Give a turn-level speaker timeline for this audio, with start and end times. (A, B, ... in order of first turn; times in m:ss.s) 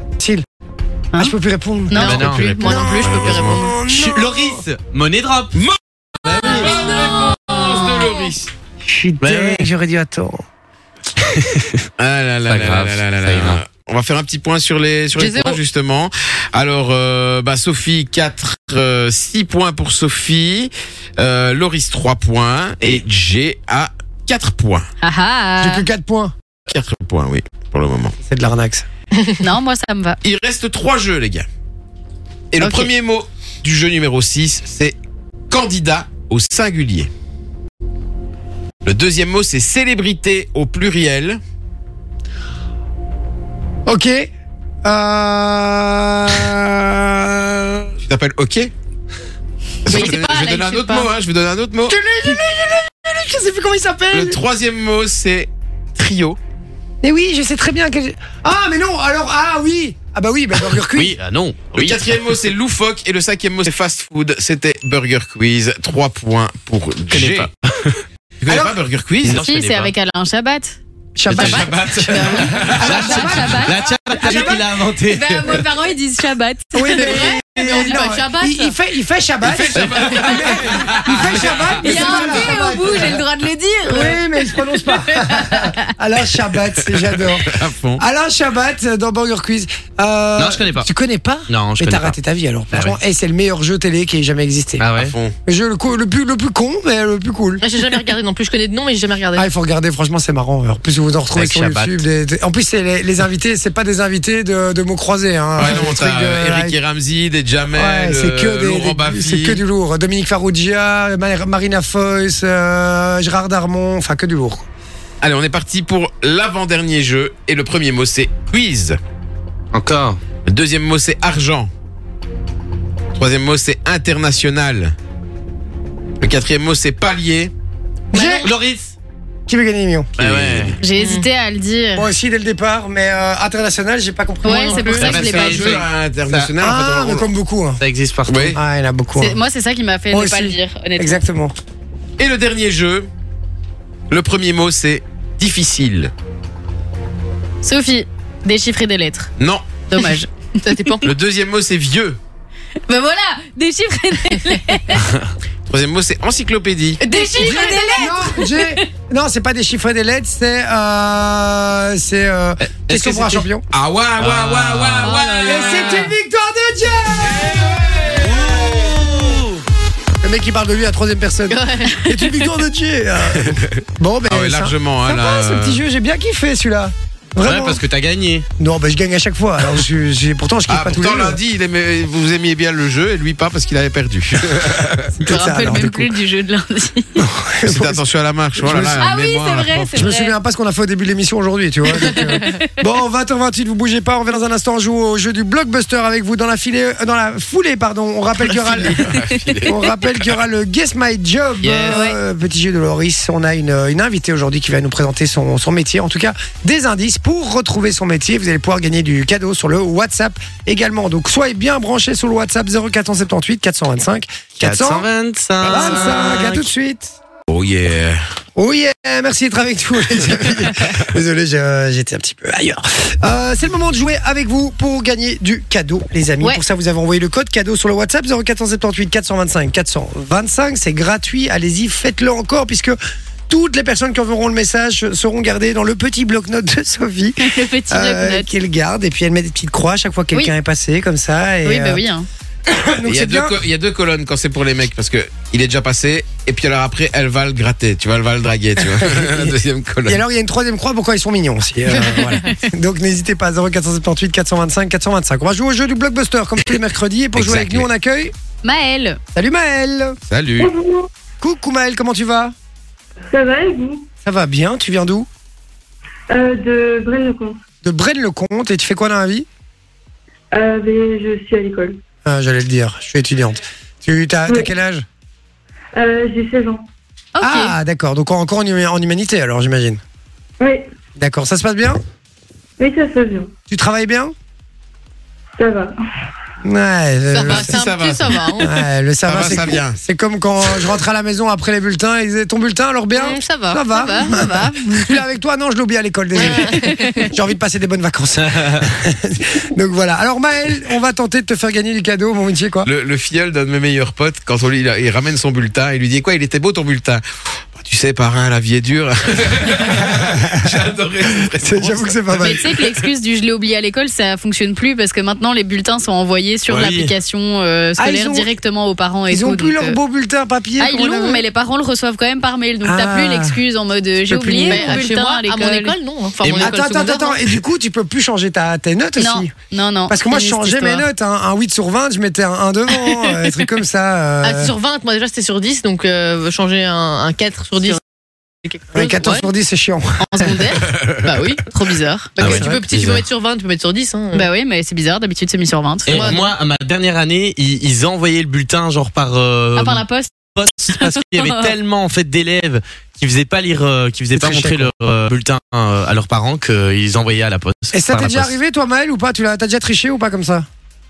0:00.2-0:00.4 A
0:01.1-0:02.0 A
0:01.9-0:03.5 B
0:02.0-0:03.8 C
0:02.0-0:02.5 D
0:02.0-0:03.7 E
0:02.6-0:04.6 A
0:03.9-0:05.6 D
0:05.5-0:08.5 E
0:06.2-0:06.7 D
0:07.3-0:08.0 B
0:08.8-0:10.4 A
0:09.2-0:09.7 D
0:11.3-0:11.8 D
0:12.0-0:24.8 E
0:12.5-0:13.6 D
0:15.2-0:15.6 C
0:25.0-0:25.9 B
0:25.6-0:26.3 A
0:26.7-0:28.1 E
0:28.2-0:28.8 A
0:29.4-0:30.2 B
0:30.2-0:31.4 E
0:32.5-0:35.0 E
0:32.6-0:32.9 B
0:35.5-0:37.1 E
0:38.8-0:41.4 E
0:43.8-0:44.3 A
0:44.8-0:47.5 A
0:47.6-0:48.7 E
0:49.8-0:52.0 E
0:49.9-0:51.0 C
0:51.9-0:54.4 A
0:54.1-0:56.4 E
0:57.0-1:01.2 A
1:00.9-1:02.1 D
1:01.7-1:07.5 E
1:07.1-1:08.0 D
1:08.4-1:09.4 E
1:08.5-1:08.8 A
1:09.2-1:09.9 D
1:09.3-1:10.8 B
1:11.2-1:11.8 A
1:11.3-1:15.6 D
1:11.3-1:14.6 B
1:11.4-1:12.9 E
1:12.6-1:14.8 A
1:15.1-1:18.0 B
1:16.7-1:23.2 A
1:16.9-1:18.7 C
1:19.4-1:22.2 E
1:21.8-1:25.9 B
1:23.8-1:34.8 A
1:27.4-1:28.0 E
1:30.4-1:30.9 D
1:31.5-1:32.1 D
1:32.7-1:33.0 D
1:34.8-1:35.1 D
1:35.0-1:35.4 E
1:35.4-1:37.6 A
1:37.6-1:39.5 C
1:39.3-1:46.8 A
1:41.3-1:42.0 D
1:45.6-1:49.6 E
1:47.7-1:54.7 A
1:55.2-1:59.0 E
1:59.7-2:00.2 D
2:00.5-2:01.7 E
2:03.2-2:04.9 E
2:06.2-2:07.5 E
2:08.1-2:08.5 A
2:08.1-2:08.5 C
2:08.4-2:08.9 D
2:09.5-2:10.1 A
2:10.2-2:10.8 D
2:10.2-2:10.8 E
2:10.8-2:12.1 B
2:11.0-2:11.2 C
2:11.9-2:15.0 A
2:14.4-2:15.8 B
2:14.4-2:15.2 C
2:14.9-2:16.5 D
2:15.0-2:17.3 E
2:16.6-2:17.8 A
2:17.8-2:18.6 D
2:18.3-2:18.6 E
2:18.5-2:19.4 A
2:19.2-2:21.2 B
2:20.1-2:21.5 A
2:22.2-2:23.1 E
2:24.1-2:26.1 E
2:27.6-2:29.3 B
2:29.4-2:29.6 E
2:29.9-2:30.3 B
2:30.6-2:31.1 C
2:31.0-2:32.2 E
2:32.9-2:35.0 B
2:35.0-2:35.3 D
2:35.7-2:37.0 E
2:37.0-2:38.0 C
2:37.0-2:38.8 B
2:37.3-2:43.6 A
2:42.6-2:43.4 D
2:43.7-2:46.1 E
2:44.2-2:45.2 D
2:45.0-2:45.4 B
2:45.3-2:45.8 C
2:45.4-2:47.7 A
2:47.2-2:48.8 E
2:48.2-2:49.6 D
2:50.2-2:57.8 A
2:51.5-2:52.2 C
2:53.4-2:55.8 E
2:57.4-2:58.4 D
2:58.6-3:01.4 A
3:00.7-3:05.1 E
3:05.2-3:06.1 A
3:05.2-3:07.1 B
3:07.2-3:08.0 A
3:07.6-3:09.9 E
3:08.6-3:09.0 A
3:09.0-3:10.3 B
3:09.9-3:19.0 A
3:12.1-3:12.7 B
3:18.7-3:19.8 E
3:19.6-3:35.1 A
3:21.6-3:22.0 D
3:21.9-3:22.2 B
3:34.6-3:36.6 D
3:35.6-3:37.2 A
3:37.5-3:38.2 E
3:38.6-3:53.0 A
3:53.5-4:02.0 A
3:57.4-3:58.5 B
4:01.6-4:02.3 B
4:02.7-4:03.6 A
4:03.0-4:10.2 E
4:08.8-4:09.5 A
4:10.0-4:18.3 A
4:17.4-4:17.8 E
4:18.6-4:19.2 B
4:19.3-4:20.2 A
4:20.3-4:20.7 E
4:20.6-4:21.1 F
4:21.4-4:22.5 A
4:23.3-4:24.1 F
4:24.2-4:25.3 A
4:26.3-4:27.6 F
4:27.8-4:29.5 A
4:30.5-4:32.0 F
4:32.2-4:35.0 A
4:34.5-4:34.7 F
4:35.9-4:36.8 F
4:37.3-4:37.7 B
4:37.4-4:40.0 A
4:40.6-4:40.9 F
4:41.2-4:42.0 A
4:42.8-4:43.5 F
4:43.7-4:44.3 A
4:45.6-4:45.9 F
4:46.6-4:47.7 A
4:47.3-4:48.8 C
4:47.4-4:48.5 E
4:48.6-5:02.9 A
4:49.2-4:50.0 E
4:53.1-4:54.7 C
4:54.2-4:55.0 B
4:56.4-4:57.3 C
4:56.8-4:57.2 B
4:58.4-4:58.8 D
5:02.8-5:07.2 E
5:07.7-5:12.8 E
5:10.0-5:10.7 A
5:11.5-5:12.6 A
5:12.4-5:20.0 B
5:16.7-5:17.1 D
5:18.0-5:18.5 A
5:19.3-5:21.4 A
5:20.8-5:26.0 B
5:22.8-5:23.6 A
5:24.2-5:25.0 A
5:24.6-5:27.4 C
5:26.4-5:26.8 D
5:26.5-5:29.5 A
5:29.2-5:31.1 B
5:30.1-5:34.7 A
5:34.4-5:38.0 C
5:38.6-5:39.5 C
5:38.9-5:40.5 A
5:40.3-5:40.8 B
5:40.3-5:41.7 C
5:41.6-5:42.4 B
5:42.3-5:44.5 C
5:42.4-5:43.2 D
5:44.3-5:46.2 B
5:46.0-5:58.5 D
5:46.1-5:46.6 C
5:49.8-5:50.3 B
5:50.9-5:51.7 B
5:54.3-5:54.9 A
5:57.9-6:00.7 A